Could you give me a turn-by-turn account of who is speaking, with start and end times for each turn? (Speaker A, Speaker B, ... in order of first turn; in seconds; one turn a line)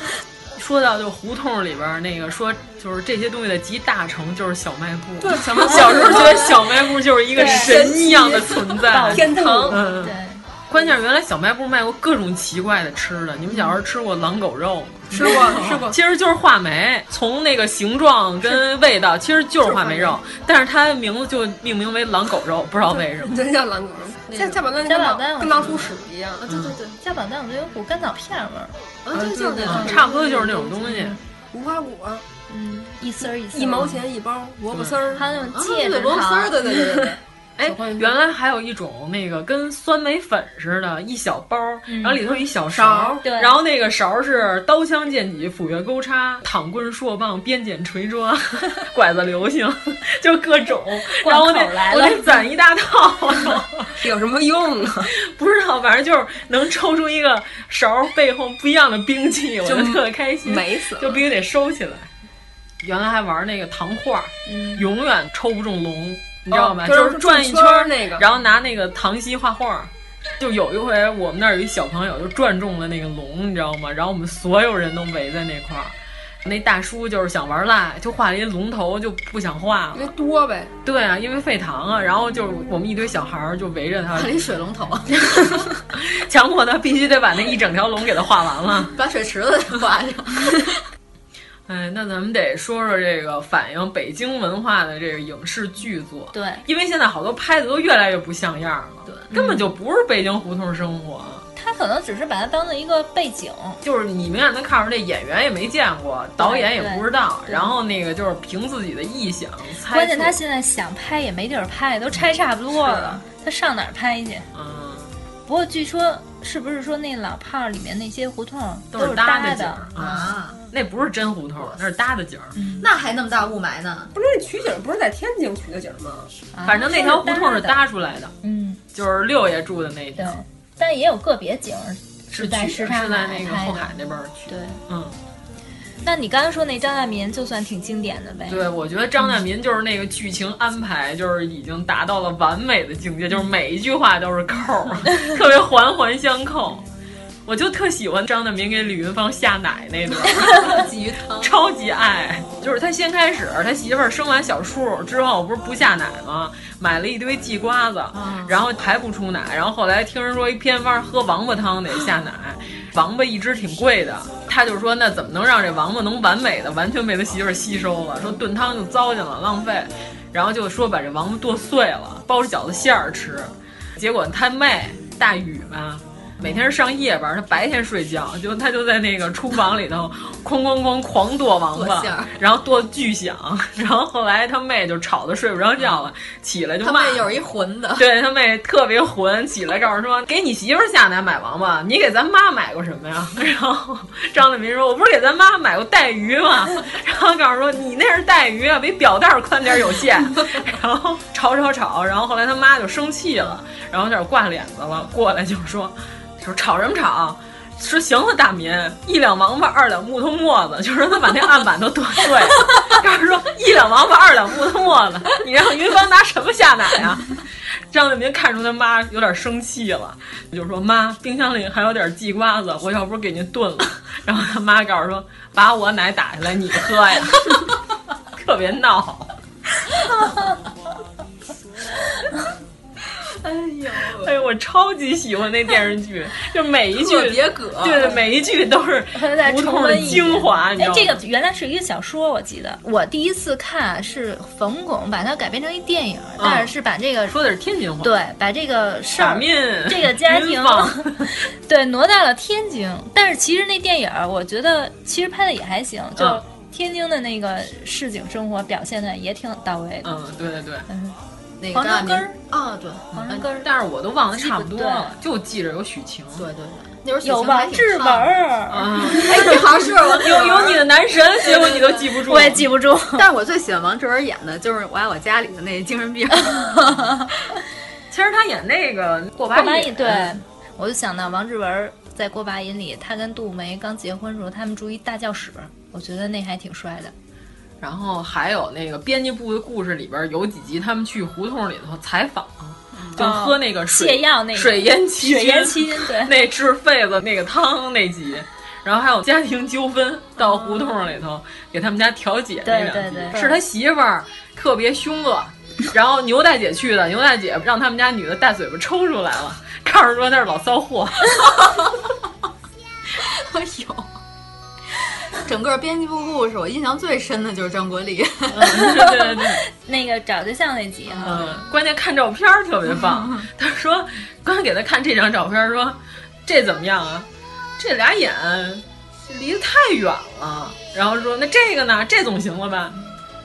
Speaker A: 0.6-10.1
Speaker B: 5.2-6.7
Speaker C: 5.7-6.2
Speaker B: 7.3-9.8
Speaker C: 7.3-7.8
Speaker C: 8.9-10.4
Speaker A: 10.7-23.4
Speaker B: 15.1-16.0
Speaker B: 19.6-20.2
Speaker B: 23.2-26.8
Speaker C: 24.4-25.8
Speaker A: 26.5-26.8
Speaker D: 26.6-27.0
Speaker C: 27.0-28.7
Speaker D: 29.1-30.0
Speaker B: 29.1-32.2
Speaker A: 29.7-31.2
Speaker C: 32.5-34.0
Speaker B: 33.5-35.3
Speaker A: 34.7-35.0
Speaker C: 35.1-36.6
Speaker D: 35.5-37.2
Speaker B: 36.7-38.1
Speaker A: 37.6-53.9
Speaker C: 41.9-42.2
Speaker B: 42.7-43.2
Speaker C: 43.2-43.5
Speaker C: 51.2-52.2
Speaker B: 54.0-55.1
Speaker A: 55.2-62.1
Speaker B: 59.6-61.2
Speaker A: 62.8-80.1
Speaker C: 64.5-64.8
Speaker B: 66.5-68.3
Speaker B: 80.0-80.7
Speaker A: 80.8-84.4
Speaker D: 84.1-85.7
Speaker A: 85.9-88.9
Speaker D: 88.9-90.8
Speaker A: 91.7-101.5
Speaker C: 96.3-96.7
Speaker C: 99.3-99.6
Speaker C: 101.5-103.8
Speaker A: 103.8-110.4
Speaker C: 106.4-107.7
Speaker C: 109.9-114.5
Speaker A: 114.5-115.1
Speaker C: 115.5-120.3
Speaker A: 118.9-122.5
Speaker D: 120.0-120.6
Speaker C: 122.5-122.9
Speaker D: 122.8-124.1
Speaker B: 124.1-126.3
Speaker C: 126.5-127.8
Speaker A: 126.7-128.3
Speaker C: 128.4-128.8
Speaker A: 128.9-130.4
Speaker C: 130.2-133.9
Speaker A: 132.3-135.2
Speaker C: 134.5-134.8
Speaker C: 136.0-138.7
Speaker A: 138.5-146.8
Speaker A: 147.5-150.8
Speaker D: 150.3-151.5
Speaker A: 151.4-187.3
Speaker D: 158.1-158.6
Speaker D: 181.7-182.4
Speaker D: 186.8-188.1
Speaker A: 188.0-217.4
Speaker A: 217.9-227.6
Speaker A: 228.3-229.3
Speaker D: 233.4-234.4
Speaker A: 234.2-241.2
Speaker D: 236.9-238.2
Speaker C: 239.1-247.4
Speaker A: 246.4-246.7
Speaker A: 247.3-248.2
Speaker C: 248.0-260.1
Speaker A: 249.2-251.3
Speaker A: 256.2-256.4
Speaker A: 260.0-260.9
Speaker C: 260.9-261.2
Speaker D: 261.6-263.5
Speaker C: 261.7-262.4
Speaker C: 263.1-263.7
Speaker A: 263.5-266.5
Speaker C: 264.4-265.2
Speaker D: 266.4-268.4
Speaker C: 267.2-268.9
Speaker A: 268.7-272.6
Speaker D: 269.0-270.9
Speaker D: 271.4-272.0
Speaker C: 272.3-273.3
Speaker D: 273.1-277.3
Speaker A: 278.1-280.4
Speaker C: 279.5-287.1
Speaker A: 287.8-311.5
Speaker D: 292.9-293.3
Speaker C: 293.2-296.3
Speaker C: 302.6-303.6
Speaker D: 313.2-314.1
Speaker D: 315.5-319.0
Speaker A: 318.5-319.6
Speaker C: 318.8-321.5
Speaker D: 321.2-321.6
Speaker A: 321.2-327.3
Speaker A: 327.8-333.0